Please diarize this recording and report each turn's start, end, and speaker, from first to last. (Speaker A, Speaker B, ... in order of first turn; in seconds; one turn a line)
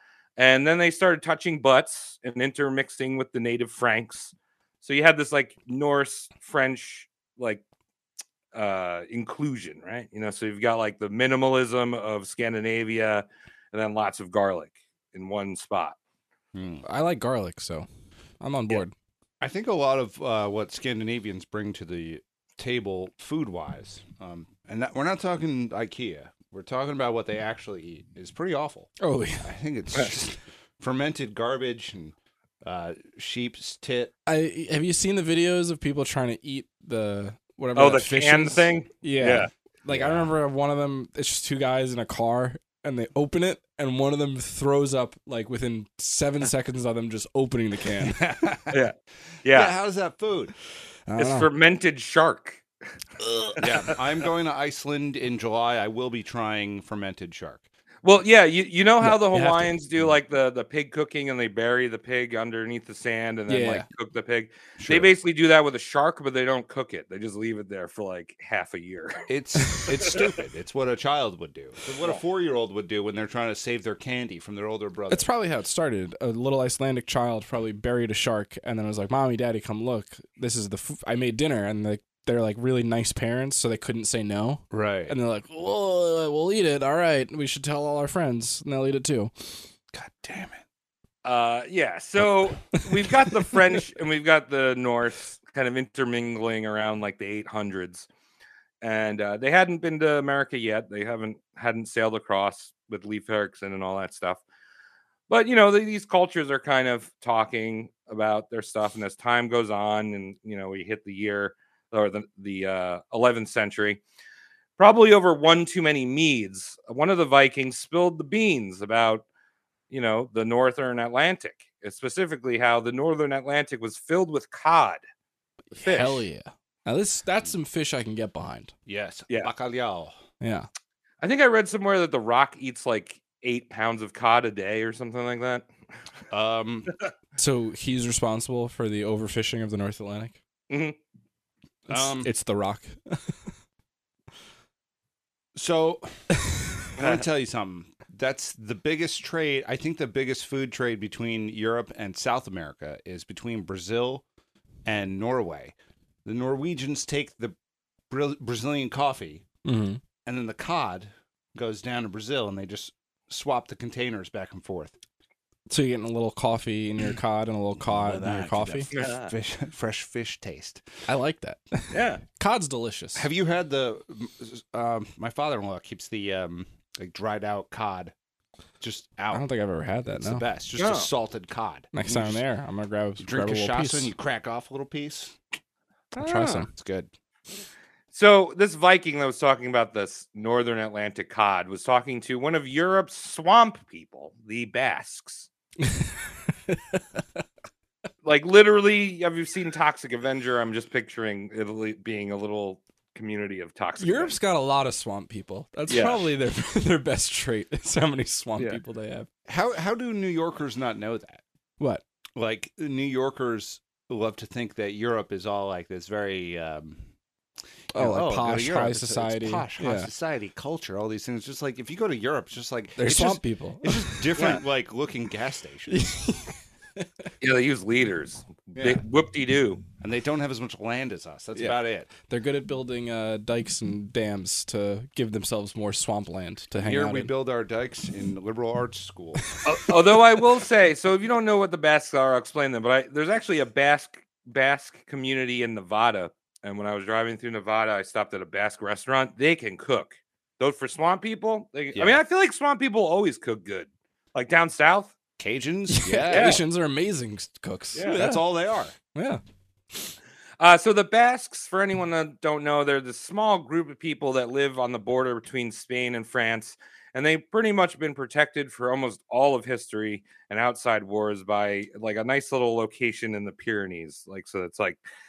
Speaker A: 0.4-7.6
Speaker A: 8.5-16.0
Speaker B: 16.5-16.8
Speaker C: 16.8-17.9
Speaker C: 18.4-18.9
Speaker B: 19.4-28.9
Speaker C: 29.0-29.5
Speaker B: 29.4-34.1
Speaker C: 34.3-48.2
Speaker A: 37.7-39.5
Speaker B: 39.9-40.3
Speaker B: 48.0-48.8
Speaker A: 48.7-49.7
Speaker B: 49.5-50.5
Speaker C: 51.1-51.5
Speaker A: 51.2-52.6
Speaker A: 53.3-53.6
Speaker B: 53.6-57.6
Speaker A: 58.0-70.2
Speaker C: 59.0-59.7
Speaker C: 63.5-63.9
Speaker B: 64.8-65.1
Speaker B: 69.3-75.3
Speaker C: 75.1-89.6
Speaker B: 84.7-85.2
Speaker B: 89.9-90.6
Speaker A: 91.2-98.1
Speaker A: 98.8-104.4
Speaker A: 105.3-114.0
Speaker A: 114.8-119.2
Speaker A: 119.9-125.0
Speaker A: 125.7-126.2
Speaker C: 125.8-128.7
Speaker B: 128.8-130.2
Speaker C: 130.4-130.7
Speaker A: 131.2-135.7
Speaker B: 136.3-136.9
Speaker C: 137.4-140.4
Speaker A: 140.7-141.0
Speaker C: 141.9-143.3
Speaker B: 141.9-142.3
Speaker B: 145.5-146.3
Speaker B: 146.9-154.2
Speaker B: 154.8-157.6
Speaker B: 158.1-159.4
Speaker C: 159.6-160.0
Speaker B: 160.2-164.9
Speaker C: 165.7-168.9
Speaker B: 167.8-170.8
Speaker A: 168.9-169.3
Speaker C: 171.1-173.3
Speaker A: 171.9-172.2
Speaker B: 173.1-178.1
Speaker B: 178.8-179.4
Speaker C: 179.3-180.4
Speaker B: 180.1-182.4
Speaker A: 180.8-181.1
Speaker C: 181.9-184.1
Speaker B: 183.2-185.4
Speaker A: 186.1-186.6
Speaker C: 186.2-186.7
Speaker B: 186.6-187.1
Speaker A: 188.1-195.5
Speaker C: 195.8-196.2
Speaker C: 196.7-197.0
Speaker A: 198.2-204.4
Speaker C: 204.0-209.3
Speaker A: 205.9-206.3
Speaker B: 209.5-211.4
Speaker B: 212.3-217.1
Speaker B: 217.9-226.0
Speaker C: 217.9-220.1
Speaker C: 223.0-224.6
Speaker C: 225.9-227.1
Speaker A: 227.4-229.8
Speaker B: 228.7-229.0
Speaker B: 230.0-232.1
Speaker C: 232.3-237.3
Speaker B: 236.8-239.5
Speaker A: 239.6-255.1
Speaker B: 251.9-252.2
Speaker B: 255.4-256.6
Speaker C: 255.9-258.5
Speaker A: 256.3-256.6
Speaker A: 257.9-258.2
Speaker B: 257.9-258.9
Speaker C: 259.0-259.4
Speaker A: 260.6-275.0